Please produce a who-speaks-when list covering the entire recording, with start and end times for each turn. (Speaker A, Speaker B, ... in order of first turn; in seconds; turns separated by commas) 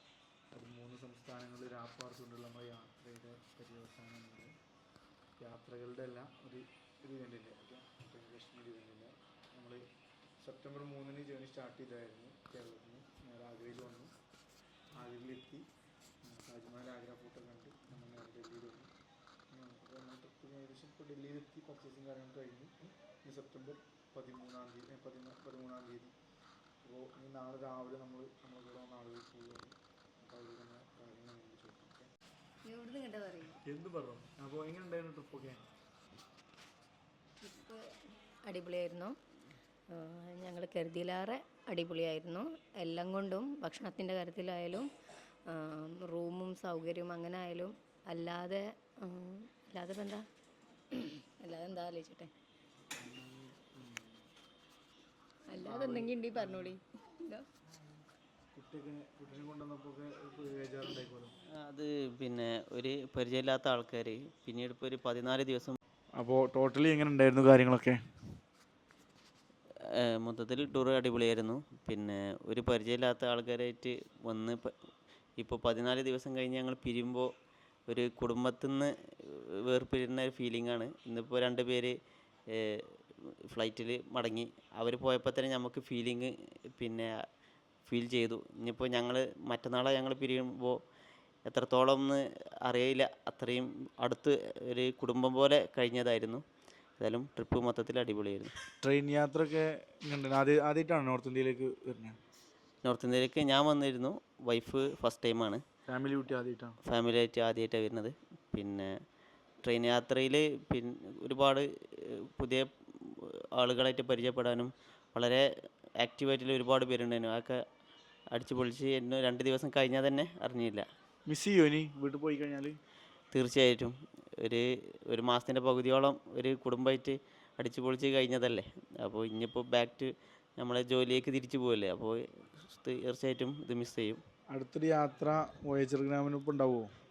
Speaker A: 0.5-4.5, Speaker A: 5.4-9.8, Speaker A: 10.4-14.1, Speaker A: 14.9-15.7, Speaker A: 16.2-18.9, Speaker A: 19.5-26.1, Speaker A: 26.8-32.1, Speaker B: 32.6-33.6, Speaker A: 33.5-35.6, Speaker B: 37.4-37.8, Speaker B: 38.5-39.1, Speaker B: 39.9-44.9, Speaker B: 45.5-50.2, Speaker B: 50.9-52.3, Speaker A: 53.0-54.2, Speaker B: 55.5-57.5, Speaker A: 55.6-56.8, Speaker A: 58.5-61.3, Speaker C: 61.6-65.8, Speaker A: 66.2-68.0, Speaker C: 70.0-74.7, Speaker C: 75.4-77.3, Speaker C: 77.9-81.9, Speaker C: 82.5-82.9, Speaker C: 83.5-87.1, Speaker C: 87.9-90.8, Speaker C: 91.5-96.4, Speaker C: 97.0-98.5, Speaker A: 98.8-102.2, Speaker C: 102.8-105.6, Speaker A: 105.9-106.8, Speaker C: 106.8-108.9, Speaker C: 109.6-111.7, Speaker C: 112.3-115.4, Speaker C: 116.0-117.6, Speaker C: 118.3-120.8, Speaker A: 121.3-122.8, Speaker C: 123.3-134.2, Speaker A: 134.5-136.9